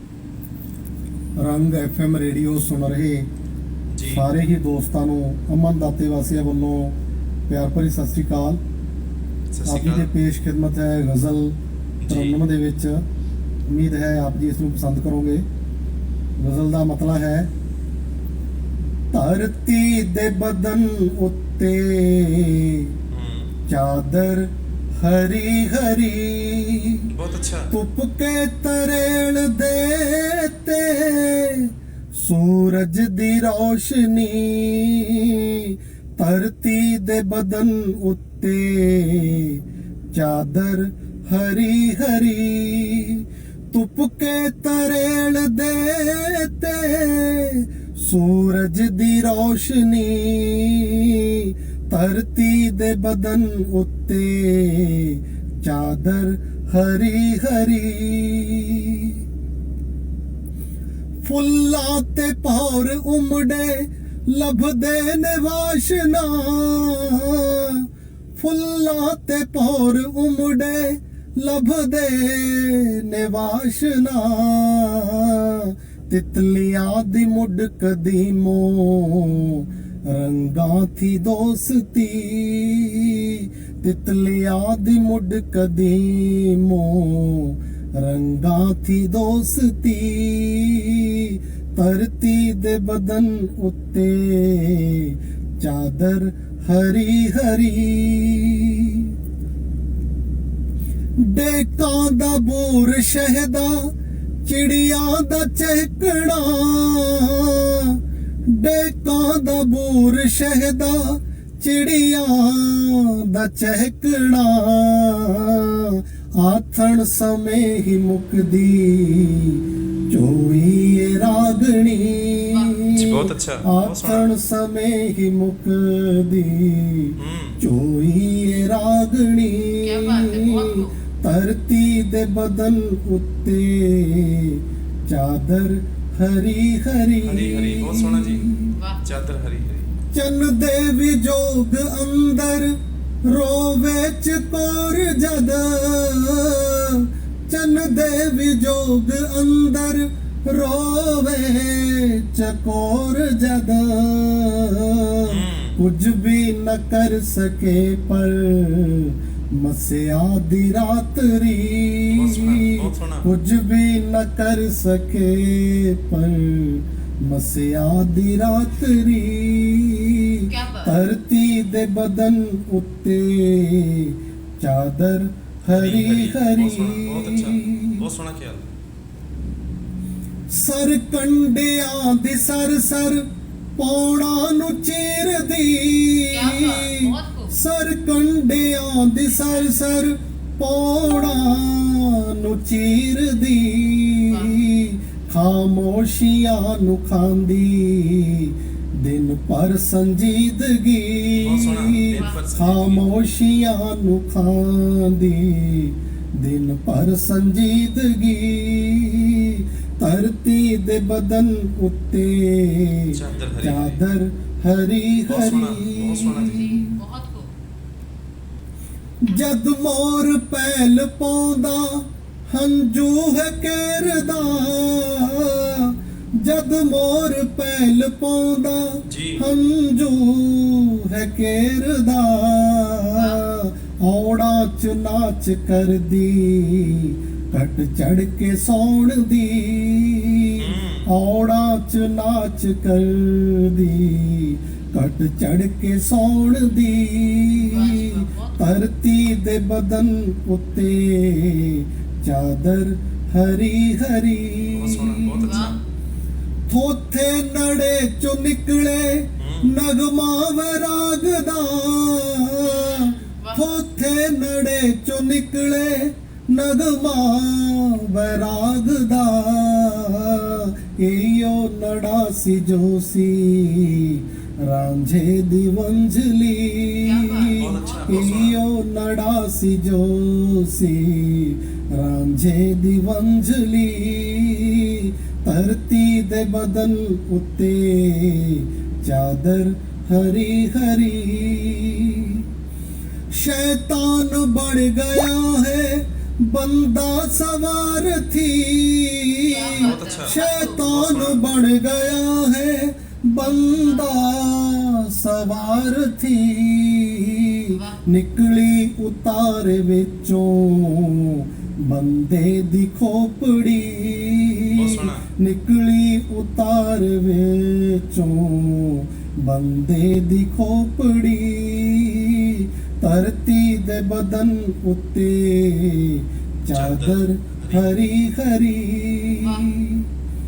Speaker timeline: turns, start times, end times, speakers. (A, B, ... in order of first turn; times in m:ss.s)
0:01.4-0:03.3 A
0:03.9-0:04.3 B
0:04.1-0:07.0 A
0:07.5-0:08.6 A
0:09.5-0:10.1 B
0:09.6-0:11.6 A
0:12.0-0:12.4 B
0:12.1-0:13.0 A
0:13.7-0:15.4 A
0:16.4-0:17.5 A
0:19.1-0:22.9 A
0:23.1-0:23.5 B
0:23.7-0:24.5 A
0:25.0-0:27.1 A
0:27.1-0:27.7 B
0:27.3-0:27.5 C
0:27.7-0:39.6 A
0:40.1-0:59.2 A
1:01.2-1:07.9 A
1:08.4-1:39.1 A
1:41.2-1:43.9 A
1:44.4-1:48.0 A
1:48.6-2:18.6 A
2:02.5-2:02.8 C
2:02.9-2:04.3 B
2:07.2-2:07.6 B
2:09.8-2:11.0 C
2:17.2-2:19.9 B
2:18.8-2:19.0 C
2:20.1-2:58.0 A
2:35.3-2:35.8 B
2:42.1-2:43.3 B
2:50.5-2:51.0 C
2:55.7-2:58.7 B
3:00.5-3:03.2 A
3:03.8-3:36.8 A
3:06.3-3:07.5 C
3:09.3-3:09.8 C
3:14.3-3:14.6 C
3:21.4-3:23.0 B
3:33.1-3:34.0 B
3:35.3-3:36.7 B
3:36.1-3:37.5 C
3:39.2-4:15.7 A
3:49.1-3:49.4 B
3:53.2-3:53.4 C
4:00.6-4:01.1 B
4:07.6-4:08.7 C
4:14.7-4:15.8 B
4:15.4-4:15.8 C
4:16.7-4:52.4 A
4:19.4-4:19.7 B
4:22.6-4:23.7 C
4:37.0-4:38.4 C
4:37.6-4:38.6 B
4:53.3-5:30.1 A
4:59.4-5:00.8 C
4:59.8-5:01.4 B
5:03.4-5:04.1 C
5:07.7-5:08.1 C
5:14.7-5:15.2 B
5:26.7-5:27.9 B
5:29.4-5:29.8 C